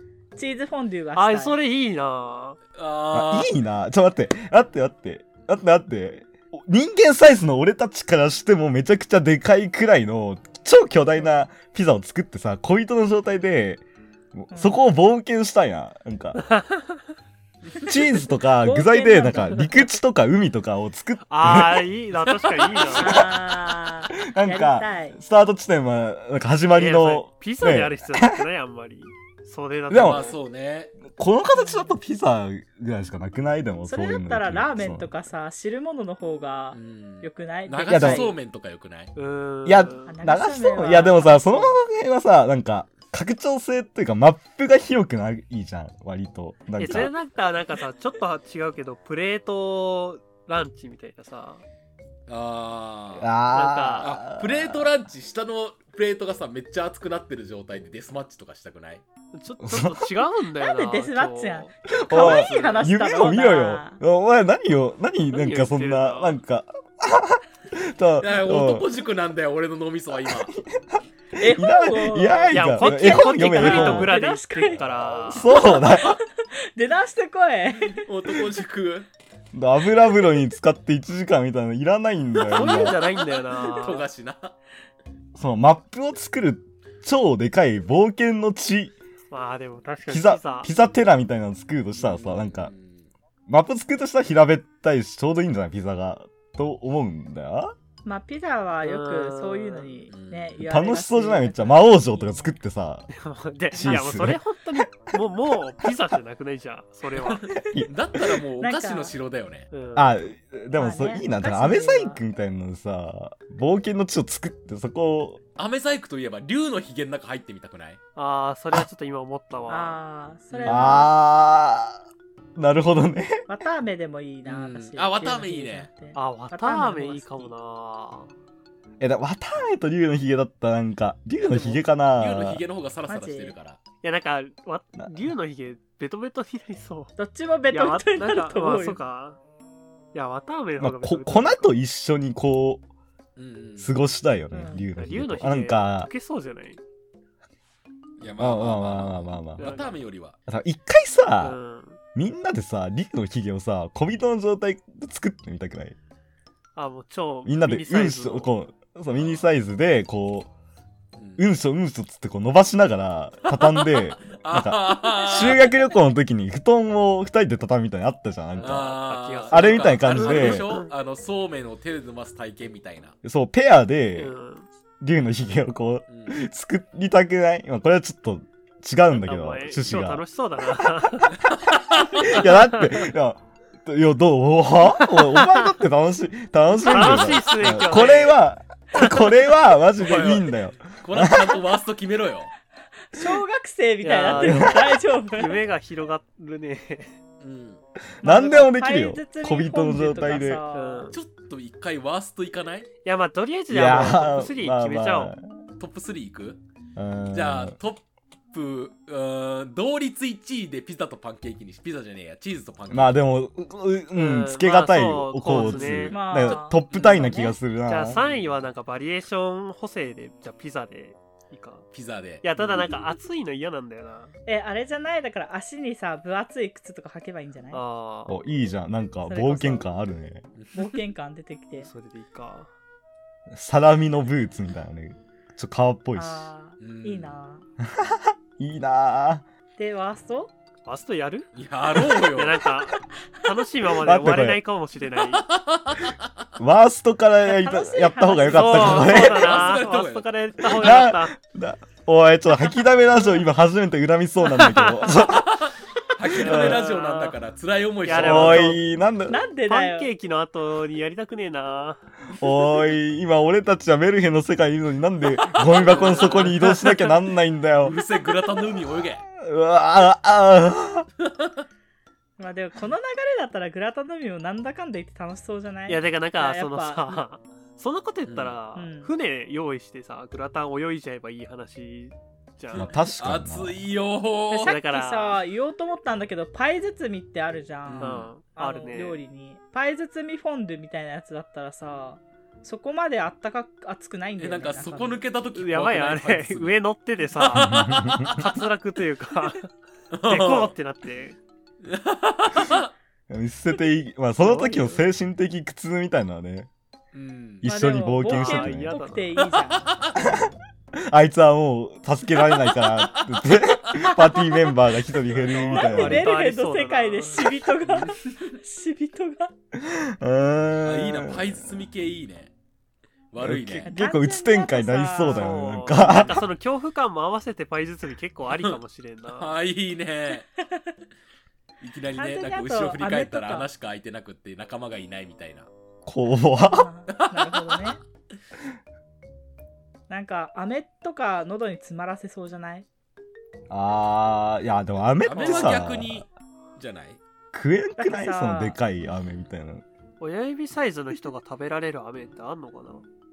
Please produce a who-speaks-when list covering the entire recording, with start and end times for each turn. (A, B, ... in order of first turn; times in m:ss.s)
0:00.4-0:01.6 A
0:01.1-0:02.6 B
0:02.8-0:03.5 C
0:03.1-0:13.8 D
0:14.3-0:16.4 D
0:14.5-0:14.8 A
0:16.4-0:17.0 B
0:17.8-0:21.9 D
0:18.6-0:19.9 A
0:21.3-0:23.3 B
0:22.7-0:23.5 D
0:22.9-0:25.2 A
0:24.2-0:28.4 D
0:26.7-0:30.4 B
0:29.9-0:30.3 D
0:29.9-0:31.0 C
0:31.1-0:35.1 D
0:31.5-0:32.0 A
0:33.8-0:38.3 A
0:36.7-0:39.1 C
0:37.9-0:38.3 D
0:39.1-0:40.2 B
0:39.6-0:47.1 D
0:40.1-0:41.8 A
0:46.8-0:51.6 B
0:52.3-0:53.3 C
0:53.2-0:54.9 D
0:53.5-0:54.1 B
0:54.0-0:59.0 C
0:59.3-1:02.9 B
0:59.6-1:00.1 D
1:00.6-1:04.0 A
1:02.0-1:08.9 D
1:05.3-1:06.4 B
1:08.2-1:10.5 C
1:10.2-1:14.2 D
1:11.4-1:14.8 A
1:12.5-1:15.5 B
1:15.3-1:16.2 D
1:15.3-1:18.1 A
1:17.8-1:19.1 C
1:19.5-1:23.0 D
1:22.5-1:24.5 C
1:22.5-1:24.0 B
1:25.4-1:28.9 D
1:29.3-1:30.7 B
1:30.1-1:32.7 D
1:31.9-1:33.1 C
1:33.5-1:37.7 D
1:38.0-1:42.5 A
1:38.8-1:39.9 B
1:40.1-1:40.6 C
1:40.6-1:43.1 D
1:43.1-1:47.5 B
1:43.7-1:44.4 D
1:47.2-1:49.7 C
1:47.6-1:48.4 D
1:48.6-1:49.1 A
1:49.7-1:50.1 B
1:50.0-1:55.4 D
1:50.7-1:52.2 A
1:55.6-1:58.0 C
1:58.2-2:00.0 B
1:59.7-2:01.1 A
2:00.5-2:00.9 C
2:00.6-2:02.0 D
2:02.6-2:03.4 D
2:03.5-2:07.5 A
2:04.4-2:05.9 C
2:06.1-2:08.3 B
2:09.0-2:12.6 D
2:11.4-2:13.8 C
2:13.1-2:13.5 A
2:14.0-2:17.1 B
2:17.2-2:19.0 A
2:17.7-2:19.4 B
2:20.1-2:21.7 B
2:20.8-2:22.8 D
2:23.4-2:24.0 C
2:23.8-2:26.1 D
2:24.5-2:24.8 A
2:24.9-2:26.8 B
2:28.2-2:30.4 C
2:28.4-2:29.6 D
2:29.6-2:30.0 B
2:30.5-2:31.6 D
2:31.4-2:32.0 B
2:32.1-2:35.9 D
2:36.8-2:38.5 B
2:37.4-2:40.5 D
2:39.1-2:39.4 C
2:41.2-2:41.4 C
2:41.4-2:48.9 D
2:43.4-2:45.7 C
2:48.6-2:50.9 B
2:48.6-2:53.1 C
2:49.5-2:50.7 D
2:53.2-2:54.3 D
2:54.2-2:54.7 B
2:55.0-3:11.6 D
2:56.1-2:56.4 C
2:59.1-3:01.4 B
3:01.5-3:02.3 C
3:02.2-3:03.1 B
3:04.9-3:05.7 B
3:06.7-3:08.4 B
3:09.0-3:09.2 B
3:10.0-3:12.5 C
3:10.0-3:10.3 B
3:13.1-3:15.6 A
3:13.2-3:13.4 D
3:14.0-3:17.1 B
3:14.3-3:15.0 D
3:17.4-3:17.8 C
3:18.2-3:20.6 D
3:18.2-3:21.1 A
3:20.7-3:21.2 B
3:21.1-3:22.9 C
3:23.0-3:25.3 B
3:23.7-3:25.5 D
3:25.8-3:26.6 C
3:27.0-3:27.8 D
3:27.3-3:33.2 C
3:32.9-3:38.2 D
3:34.1-3:36.6 B
3:35.5-3:36.1 C
3:36.1-3:37.6 A
3:36.9-3:37.3 C
3:37.8-3:41.9 B
3:38.2-3:38.4 C
3:41.9-3:42.9 C
3:42.4-3:44.3 B
3:44.4-3:47.8 A
3:47.7-3:48.4 B
3:48.3-3:50.4 D
3:49.2-3:49.8 A
3:50.6-3:51.0 C
3:50.7-3:51.9 A
3:51.8-3:52.7 B
3:53.5-3:56.5 D
3:56.1-3:57.6 A
3:56.8-3:57.4 C
3:57.8-3:59.4 D
3:59.8-4:00.5 A
4:00.8-4:01.5 B
4:01.5-4:02.7 C
4:02.1-4:05.4 B
4:04.0-4:04.6 D
4:05.3-4:06.2 C
4:06.6-4:09.5 D
4:07.4-4:09.4 A
4:08.5-4:11.4 B
4:08.8-4:10.3 C
4:10.6-4:15.6 D
4:14.5-4:15.1 B
4:15.2-4:18.8 C
4:16.4-4:17.4 B
4:16.4-4:16.8 D
4:18.0-4:18.8 B
4:18.1-4:19.4 D
4:19.3-4:20.1 A
4:19.7-4:22.0 B
4:22.4-4:28.0 D
4:25.7-4:26.6 C
4:25.7-4:27.1 B
4:27.8-4:29.2 C
4:29.3-4:31.1 D
4:31.2-4:31.5 C
4:32.4-4:37.2 A
4:35.9-4:42.9 B
4:38.3-4:38.6 C
4:38.7-4:39.1 A
4:42.7-4:44.7 C
4:42.7-4:43.8 D
4:44.5-4:55.2 A
4:44.5-4:45.4 B
4:47.8-4:48.3 C
4:48.0-4:49.2 B
4:54.4-4:56.8 C
4:55.5-4:59.7 B
4:57.4-4:58.4 C
4:57.5-4:58.4 D
5:00.1-5:00.7 C
5:00.2-5:01.4 B
5:01.8-5:02.9 C
5:03.3-5:06.7 D
5:04.4-5:05.0 B
5:07.1-5:07.7 C
5:07.6-5:09.0 D
5:07.6-5:10.0 A
5:08.2-5:09.4 B
5:09.4-5:10.4 C
5:10.2-5:16.3 D
5:12.4-5:14.2 C
5:15.4-5:17.5 B
5:15.6-5:19.5 A
5:17.8-5:18.2 C
5:19.7-5:21.7 D
5:20.8-5:22.5 C
5:23.3-5:23.9 C
5:23.4-5:26.4 D
5:23.8-5:25.7 A
5:25.2-5:29.5 B
5:28.5-5:30.5 C
5:31.8-5:35.7 C
5:32.1-5:33.7 A
5:36.0-5:36.9 D
5:36.6-5:38.0 A
5:37.1-5:38.0 C
5:40.1-5:42.9 A
5:43.7-5:46.2 D
5:45.2-5:47.2 C
5:45.4-5:45.8 B
5:47.5-5:49.8 D
5:48.0-5:48.8 A
5:49.1-5:49.4 C
5:50.2-5:53.0 B